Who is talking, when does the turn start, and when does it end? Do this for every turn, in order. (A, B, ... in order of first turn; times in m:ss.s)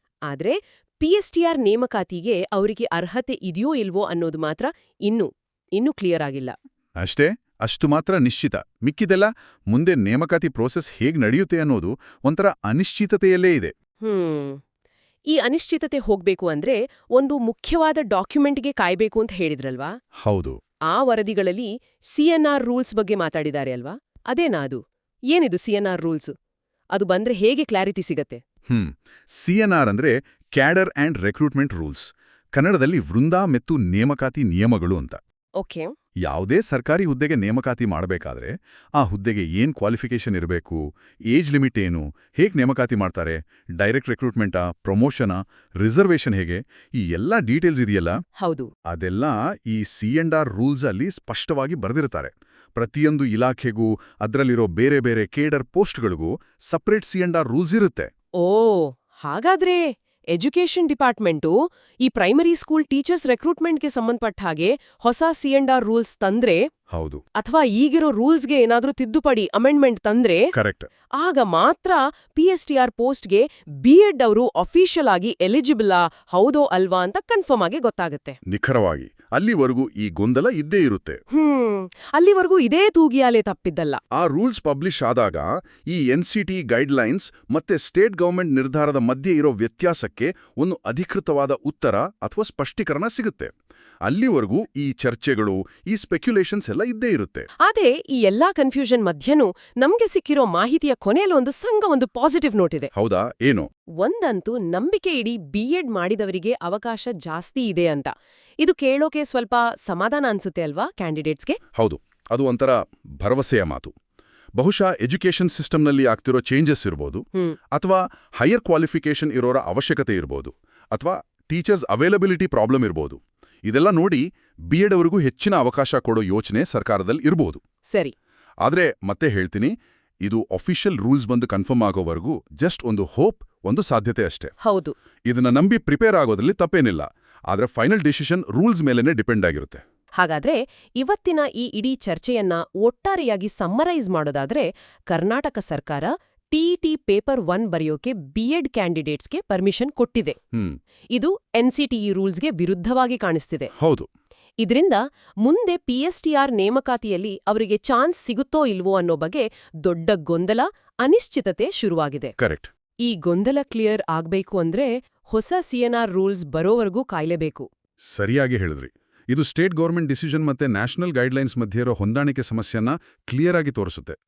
0:00.3-0:06.5 A
0:07.0-0:13.7 B
0:14.0-0:14.6 A
0:15.3-0:19.9 A
0:20.2-0:20.6 B
0:20.9-0:26.3 A
0:26.9-0:28.4 A
0:28.7-0:35.2 B
0:35.6-0:35.9 A
0:36.2-0:48.2 B
0:48.4-0:48.7 A
0:48.9-0:58.1 B
0:58.4-1:06.6 A
1:06.9-1:07.2 B
1:07.4-1:10.5 A
1:10.5-1:10.9 B
1:11.2-1:18.4 A
1:18.4-1:21.2 B
1:21.3-1:24.0 A
1:24.1-1:33.5 B
1:34.0-1:37.5 B
1:37.6-1:42.9 A
1:42.9-1:43.7 B
1:44.0-1:51.6 A
1:51.7-1:53.9 B
1:54.6-2:07.6 B
2:08.6-2:14.5 B
2:14.6-2:14.9 A
2:15.3-2:19.8 B
2:20.2-2:30.4 A
2:30.5-2:30.8 B
2:31.1-2:33.7 A
2:33.8-2:34.1 B
2:34.6-2:42.3 A
2:42.4-2:42.7 B
2:43.0-2:47.7 A
2:48.1-2:54.2 B